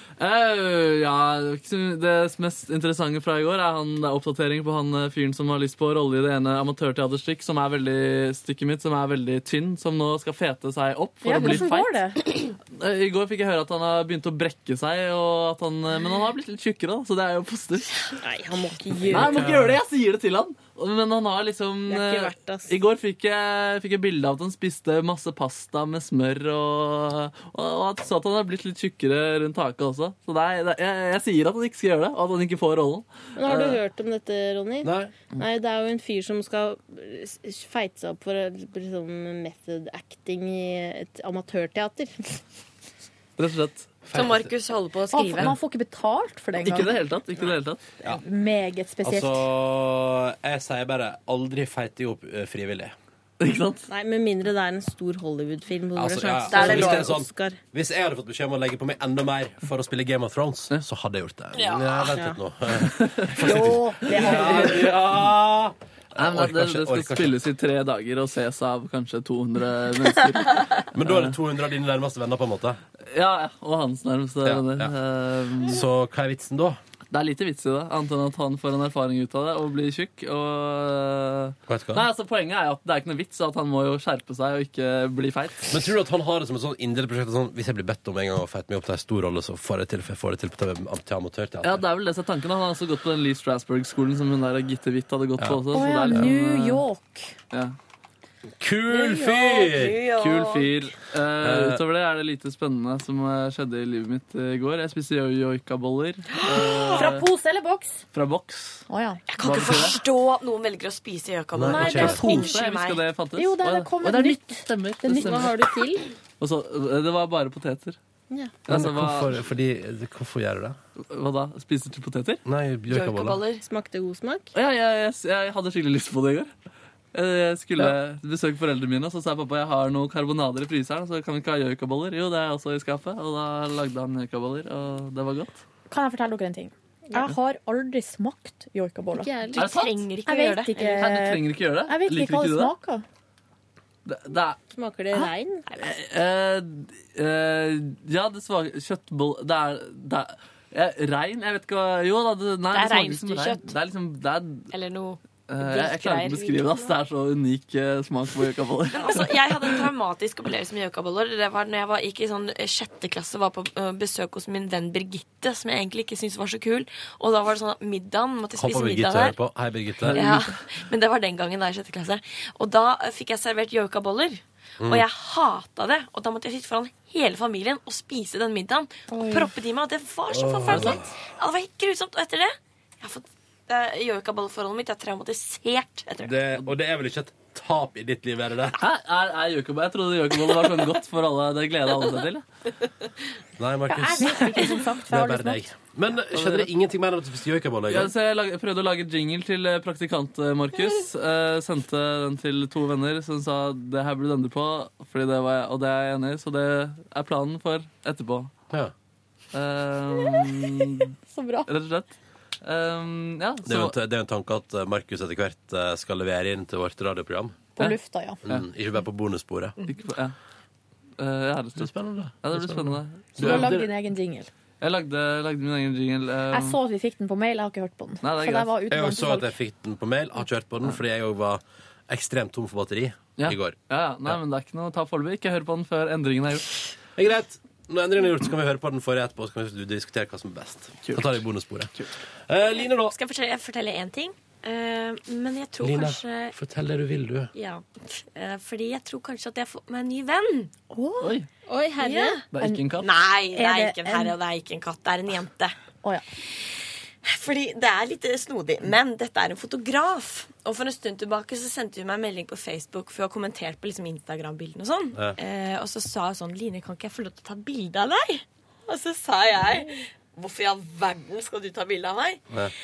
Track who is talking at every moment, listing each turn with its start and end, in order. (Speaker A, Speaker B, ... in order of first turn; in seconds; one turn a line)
Speaker A: 0.2-12.0
Speaker B: 11.2-12.2
Speaker A: 12.7-17.9
Speaker C: 18.2-19.6
Speaker A: 19.1-33.7
Speaker D: 19.1-19.8
Speaker C: 21.9-22.7
Speaker C: 33.4-42.4
Speaker D: 34.8-35.2
Speaker A: 43.4-43.9
Speaker D: 44.1-44.5
Speaker E: 44.1-45.5
Speaker B: 45.1-47.0
Speaker A: 46.6-47.8
Speaker B: 48.0-49.5
Speaker D: 49.0-53.0
Speaker A: 53.4-53.9
Speaker C: 53.9-57.6
Speaker D: 56.0-67.4
Speaker E: 56.5-57.2
Speaker E: 61.5-62.1
Speaker C: 62.1-62.4
Speaker A: 62.8-63.5
Speaker B: 63.4-64.9
Speaker A: 66.2-71.4
Speaker D: 70.9-72.8
Speaker A: 73.1-75.8
Speaker D: 74.4-74.9
Speaker D: 75.6-76.8
Speaker A: 77.1-85.8
Speaker D: 81.7-82.0
Speaker D: 85.7-91.8
Speaker A: 91.6-96.8
Speaker D: 95.4-96.2
Speaker B: 95.7-97.3
Speaker D: 98.6-100.0
Speaker E: 98.9-100.9
Speaker A: 100.1-107.2
Speaker D: 101.4-101.8
Speaker E: 106.3-107.1
Speaker B: 107.0-108.0
Speaker A: 108.1-108.8
Speaker B: 108.9-109.2
Speaker E: 109.3-113.0
Speaker A: 109.4-110.0
Speaker D: 111.5-112.3
Speaker B: 111.7-112.5
Speaker A: 111.8-115.7
Speaker B: 113.4-115.4
Speaker C: 115.1-116.1
Speaker A: 116.4-118.0
Speaker C: 118.3-118.6
Speaker A: 118.7-119.4
Speaker D: 118.7-120.8
Speaker A: 121.0-122.4
Speaker D: 122.5-123.4
Speaker E: 122.9-123.6
Speaker C: 123.6-124.5
Speaker A: 124.5-126.5
Speaker A: 127.1-135.6
Speaker B: 135.9-139.3
Speaker C: 139.1-139.7
Speaker E: 139.5-140.8
Speaker A: 139.6-139.9
Speaker B: 140.3-143.0
Speaker C: 140.8-141.0
Speaker A: 140.9-142.7
Speaker A: 144.1-144.6
Speaker C: 144.7-145.7
Speaker E: 145.7-145.9
Speaker A: 145.8-154.7
Speaker E: 152.7-153.8
Speaker E: 154.7-156.8
Speaker A: 155.5-159.8
Speaker E: 158.9-169.4
Speaker D: 168.6-170.2
Speaker A: 170.0-170.4
Speaker E: 170.1-186.4
Speaker B: 179.1-179.5
Speaker D: 180.3-181.1
Speaker A: 180.7-181.0
Speaker D: 186.2-188.8
Speaker A: 188.8-192.4
Speaker D: 193.6-198.1
Speaker B: 193.9-195.7
Speaker A: 196.3-196.7
Speaker A: 197.9-208.5
Speaker A: 209.5-211.1
Speaker B: 211.3-211.7
Speaker A: 211.7-213.9
Speaker D: 213.7-217.7
Speaker B: 217.8-218.4
Speaker D: 218.4-219.8
Speaker A: 219.8-220.3
Speaker A: 221.2-223.8
Speaker D: 221.8-223.9
Speaker B: 223.4-224.5
Speaker A: 224.8-226.8
Speaker B: 226.5-229.6
Speaker A: 228.2-228.8
Speaker D: 228.9-234.4
Speaker A: 233.4-236.8
Speaker D: 237.2-241.9
Speaker A: 241.0-241.4
Speaker D: 242.5-243.2
Speaker E: 242.9-246.5
Speaker D: 245.8-247.5
Speaker E: 247.5-250.7
Speaker B: 250.9-251.4
Speaker A: 251.2-251.5
Speaker C: 251.7-252.4
Speaker E: 252.0-252.4
Speaker A: 252.5-253.1
Speaker B: 252.6-252.9
Speaker E: 253.0-255.7
Speaker B: 253.5-254.4
Speaker E: 257.2-272.4